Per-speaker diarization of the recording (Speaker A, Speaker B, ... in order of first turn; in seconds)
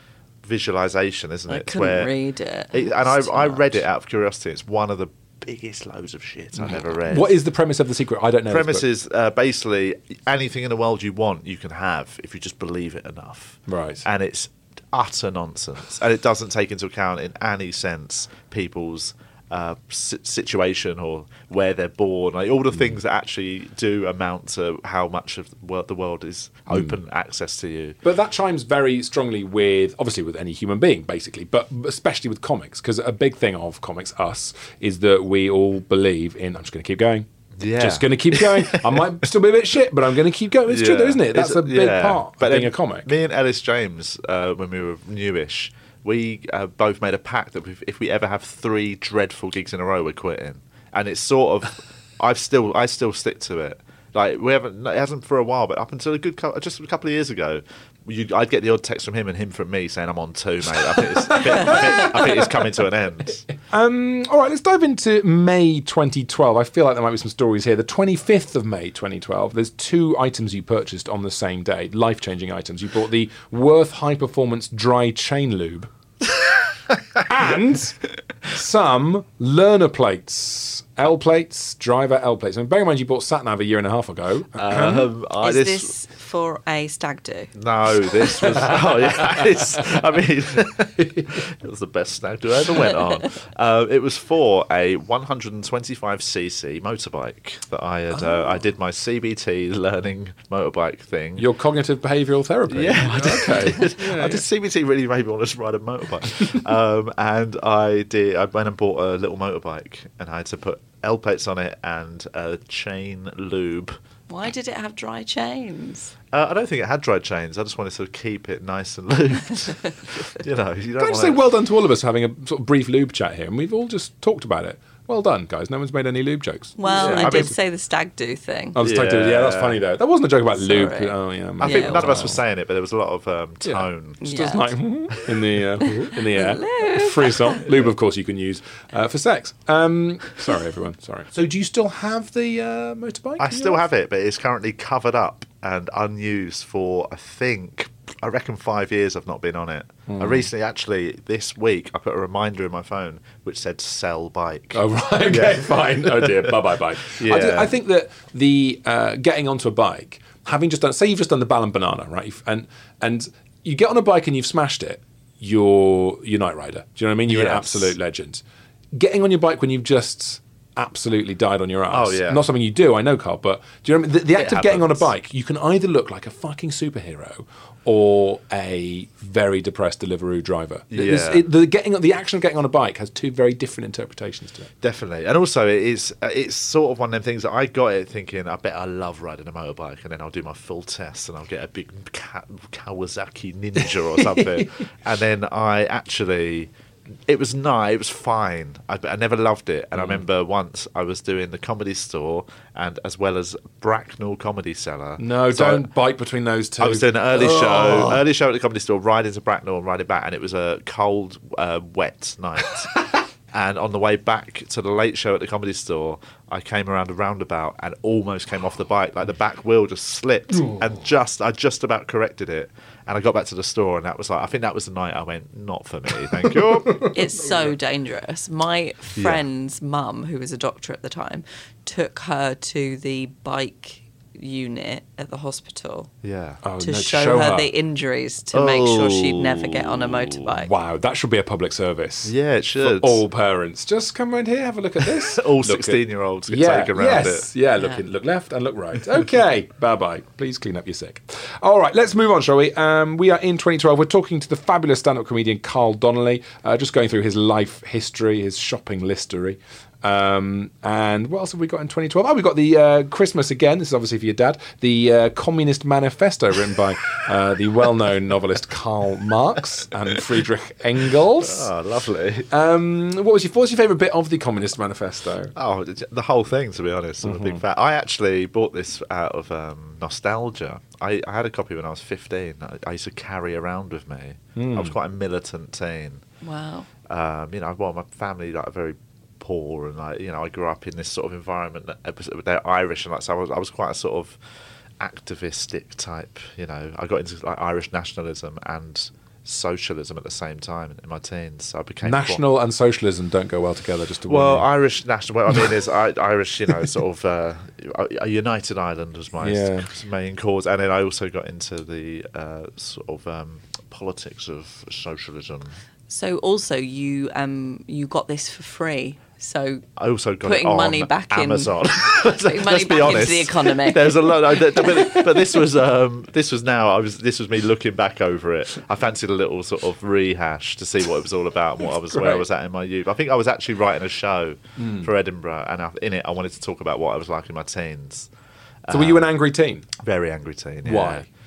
Speaker A: 0.4-2.1, 2.7-7.4, 8.5-28.0, 37.6-39.0, 40.7-63.5, 84.5-85.9, 87.5-101.5, 102.7-114.0, 116.3-121.4, 126.9-127.5, 128.8-129.8, 131.6-134.2, 143.4-157.7, 167.3-167.9, 171.9-172.4, 174.3-175.1, 180.9-181.4, 184.8-196.7, 197.3-205.9, 206.8-213.0, 213.5-227.1, 229.2-229.4, 236.2-236.6, 238.5-240.4, 242.2-243.2, 245.2-247.5, 271.4-272.5, 275.5-286.2, 287.1-294.4, 295.0-302.4, 304.3-315.7, 320.0-338.3, 338.8-339.3, 340.0-341.2
Speaker B: 1.5-3.8, 85.4-87.5, 114.3-116.1, 126.8-128.8, 130.6-132.3, 134.2-134.7, 136.3-137.6, 227.1-236.1, 236.8-240.7, 286.4-286.9, 316.1-319.8, 320.4-325.2
Speaker C: 6.6-8.8, 13.7-14.0, 28.0-43.1, 61.1-62.5, 63.7-75.9, 77.2-78.0, 78.5-85.1, 98.1-98.5, 101.4-104.4, 121.0-127.5, 128.7-132.4, 133.6-143.8, 150.1-150.5, 154.7-168.4, 168.9-184.7, 193.8-194.7, 199.9-200.2, 205.2-208.2, 220.6-220.9, 226.4-227.1, 236.6-237.7, 240.5-271.7, 272.5-275.5, 277.2-277.6, 284.6-284.9, 302.0-304.7, 309.4-309.9, 331.8-332.5, 334.8-335.1, 338.9-339.9, 340.8-341.2